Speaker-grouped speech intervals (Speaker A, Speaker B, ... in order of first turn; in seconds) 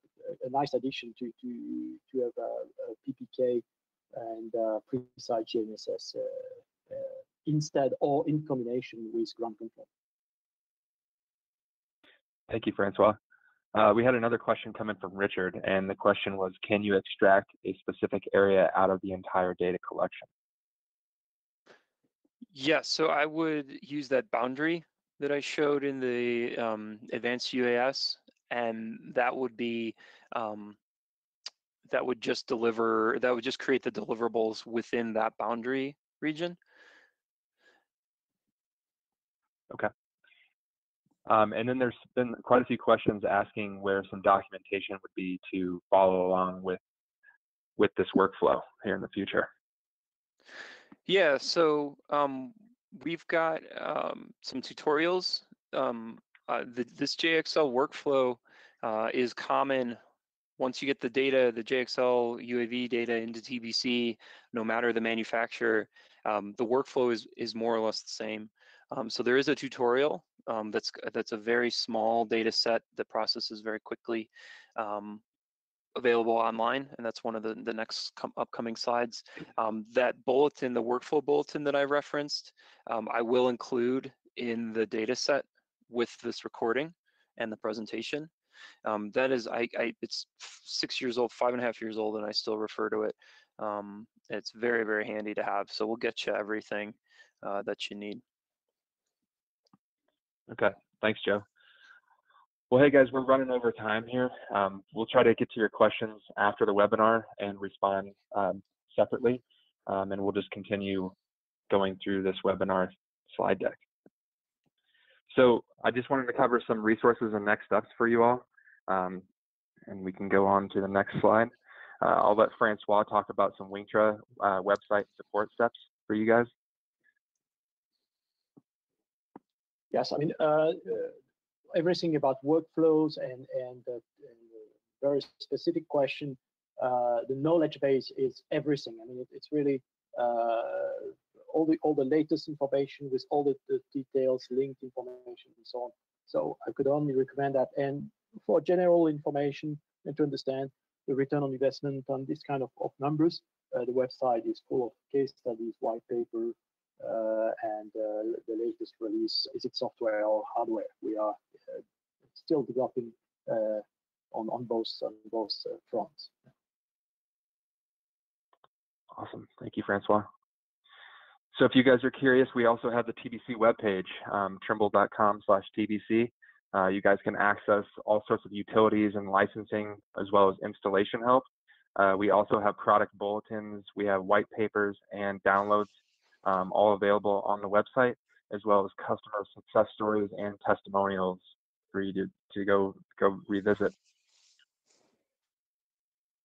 Speaker A: 0.4-9.9, 129.9-131.1, 131.7-161.8, 162.3-166.3
Speaker B: 12.5-13.2, 13.7-20.3, 41.3-46.8, 47.8-49.5, 100.5-101.4, 102.7-111.2, 111.7-113.8, 115.3-119.2, 119.9-126.5, 169.1-170.3, 171.5-185.9, 186.4-193.9
Speaker C: 22.5-30.8, 31.9-36.6, 51.1-60.0, 60.6-75.2, 76.0-88.3, 88.8-98.2